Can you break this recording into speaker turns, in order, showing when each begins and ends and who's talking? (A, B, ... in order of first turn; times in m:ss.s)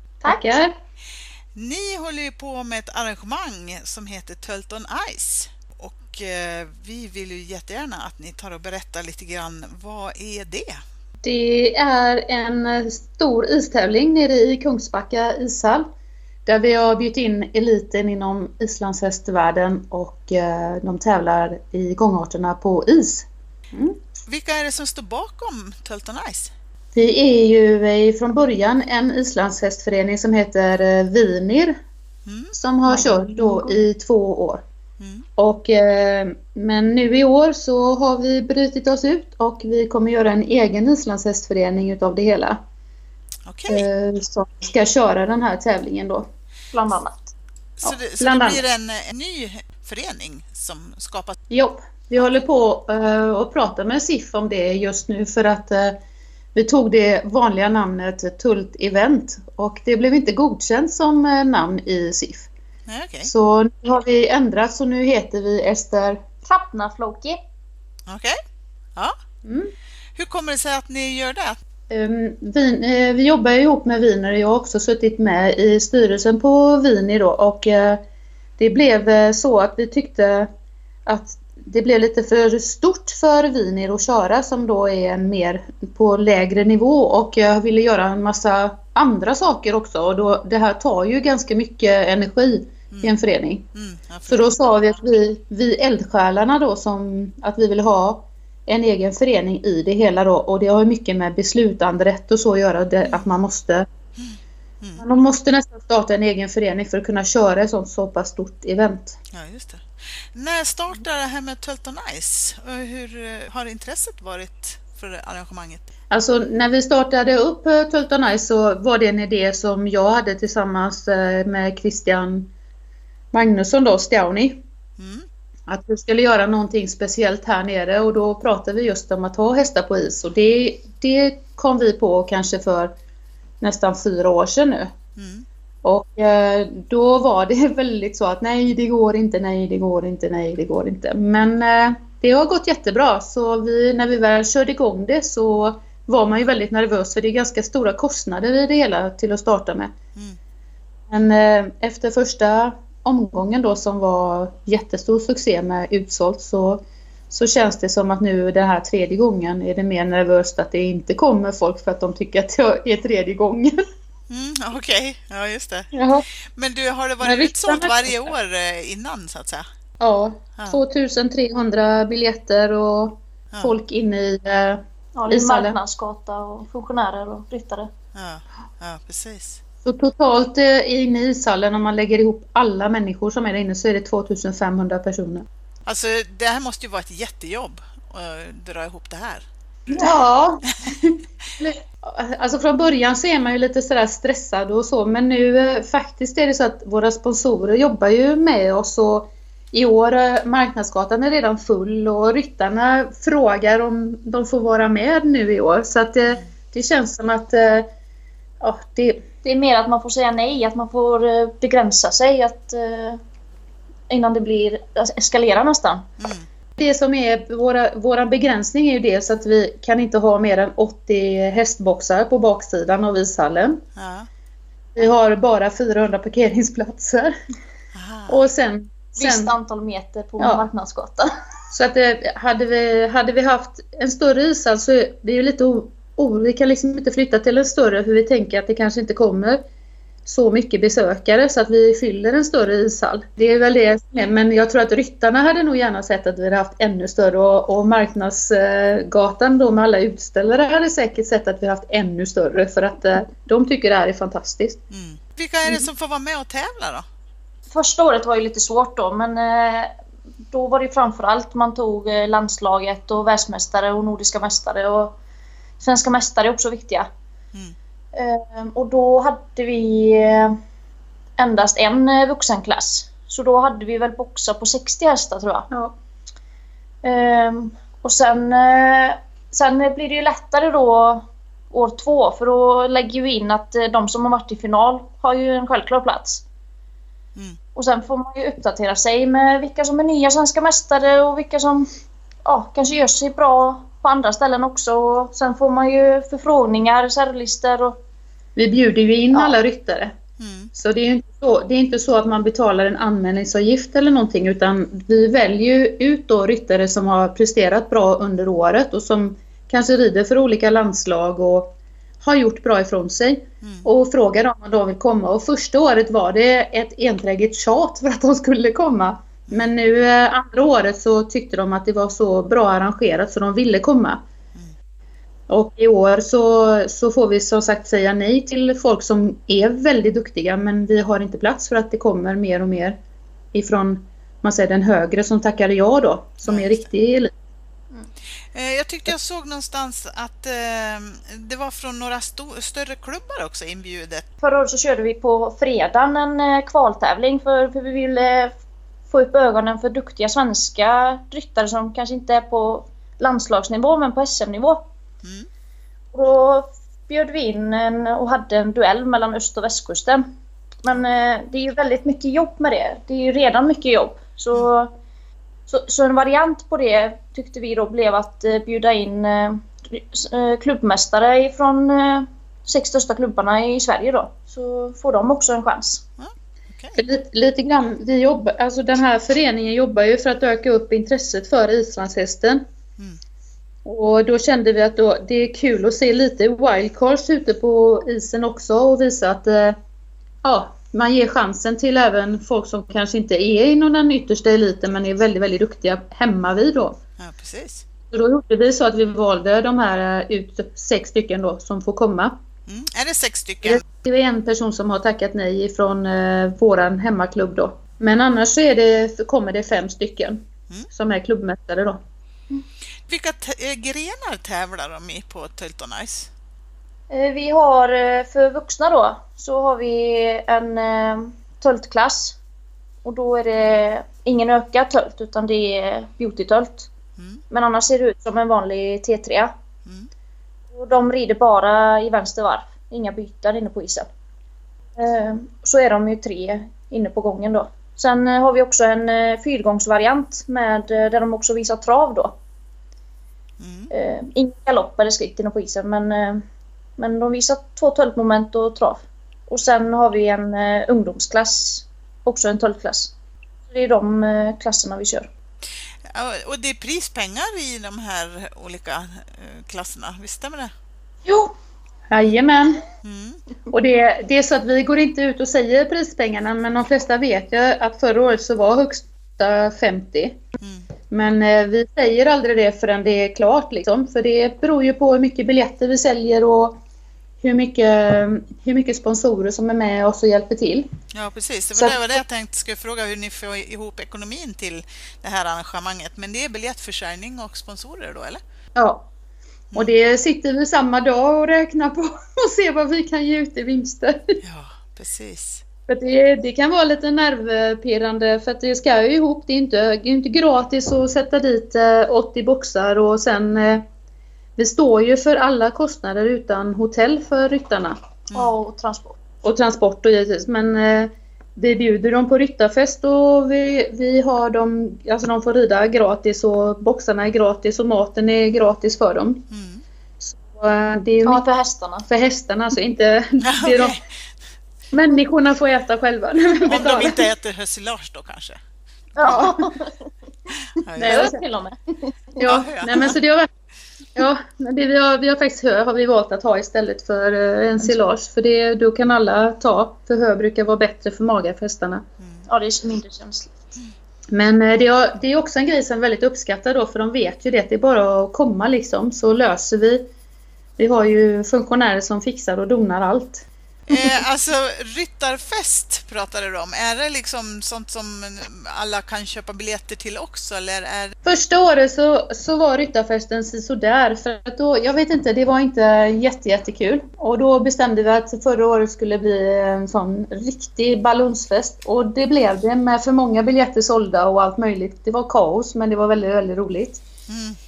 0:00.2-0:00.7 A
0:00.2-0:00.6 B
0:01.5-0:10.8 C
0:11.2-0:15.8 A
0:16.4-0:24.0 A
0:24.2-0:26.5 C
0:26.9-0:31.7 A
0:32.2-0:32.5 C
0:32.5-0:34.6 A
0:32.9-0:33.8 B
0:35.0-0:35.2 C
0:35.4-0:42.6 A
0:43.4-0:43.8 C
0:43.7-0:46.2 A
0:46.7-0:47.3 B
0:47.8-0:51.4 C
0:47.8-0:48.6 A
0:51.5-0:56.0 A
0:56.5-1:02.5 A
1:02.9-1:03.3 C
1:03.2-1:06.2 A
1:06.4-1:07.4 B
1:08.1-1:08.3 C
1:09.4-1:09.7 A
1:10.2-1:11.6 C
1:11.9-1:18.0 A
1:18.6-1:20.5 A
1:21.1-1:33.7 A
1:33.7-1:34.6 C
1:34.3-1:43.8 A
1:43.0-1:43.3 C
1:44.2-1:45.0 C
1:45.0-1:49.2 A
1:49.3-1:55.9 C
1:56.1-2:02.5 A
2:03.3-2:04.6 A
2:05.0-2:05.2 C
2:05.7-2:12.9 A
2:13.6-2:14.9 A
2:15.2-2:15.4 C
2:15.8-2:29.9 A
2:31.1-2:43.7 A
2:44.3-2:45.9 C
2:45.9-2:46.3 A
2:46.5-2:49.7 C
2:47.2-2:48.3 A
2:50.0-2:55.8 A
2:55.2-2:57.9 B
2:58.1-2:59.6 C
2:59.8-3:05.4 A
3:05.8-3:10.1 C
3:09.9-3:27.8 A
3:28.6-3:29.2 A
3:29.4-3:33.2 B
3:34.1-3:36.0 B
3:36.2-3:36.4 C
3:36.8-3:43.8 A
3:44.0-3:44.3 C
3:45.0-3:47.3 A
3:47.9-3:48.4 C
3:48.3-3:49.5 A
3:49.2-3:51.3 B
3:50.4-3:50.7 A
3:51.7-3:59.6 A
4:00.2-4:14.8 A
4:14.9-4:17.0 C
4:17.7-4:19.9 B
4:20.5-4:25.2 B
4:25.8-4:27.1 B
4:28.1-4:30.6 B
4:31.4-4:35.7 B
4:37.0-4:46.4 B
4:47.7-4:51.9 B
4:52.4-4:58.0 B
4:58.6-5:00.1 A
4:59.3-4:59.6 B
5:00.4-5:00.7 C
5:00.7-5:24.2 A
5:25.5-5:33.0 A
5:33.5-5:37.3 A
5:36.4-5:36.9 C
5:38.5-5:44.2 C
5:44.4-5:48.5 B
5:49.1-5:54.8 B
5:55.2-5:55.5 C
5:56.1-6:00.2 B
6:00.8-6:04.9 B
6:05.7-6:16.0 B
6:16.2-6:17.0 C
6:17.0-6:22.6 A
6:23.8-6:29.8 A
6:30.4-6:37.0 A
6:37.2-6:37.8 C
6:38.1-6:42.3 A
6:42.7-6:43.8 C
6:43.6-6:52.0 A
6:53.1-6:56.3 C
6:57.1-7:02.4 B
7:03.0-7:06.9 B
7:07.2-7:07.4 C
7:07.5-7:09.5 B
7:10.7-7:14.1 B
7:15.0-7:22.4 B
7:23.6-7:23.9 C
7:23.9-7:26.4 B
7:27.0-7:33.1 B
7:33.7-7:35.3 B
7:36.1-7:40.7 C
7:41.2-7:41.5 B
7:42.1-7:42.8 A
7:43.0-7:43.4 C
7:43.7-7:50.4 A
7:50.6-7:50.9 C
7:51.1-7:56.8 A
7:57.4-8:00.9 A
8:01.1-8:08.4 C
8:01.7-8:02.1 A
8:08.8-8:09.1 A
8:09.7-8:14.4 A
8:14.4-8:15.6 C
8:15.9-8:23.8 A
8:24.6-8:28.0 A
8:28.3-8:29.2 B
8:29.4-8:39.4 A
8:39.5-8:39.8 C
8:40.2-8:41.4 A
8:41.2-8:42.1 B
8:42.1-8:44.0 A
8:43.4-8:44.0 C
8:44.9-8:47.2 A
8:46.7-8:48.6 C
8:49.2-8:49.6 C
8:49.2-8:50.1 B
8:50.8-8:51.3 C
8:51.0-8:51.4 A
8:51.0-8:52.4 B
8:52.4-8:53.5 A
8:52.4-8:53.2 C
8:54.2-9:02.0 A
9:02.2-9:02.5 C
9:02.5-9:03.5 B
9:04.3-9:10.0 A
9:10.8-9:13.4 A
9:13.9-9:21.1 C
9:21.2-9:37.0 A
9:37.3-9:37.6 C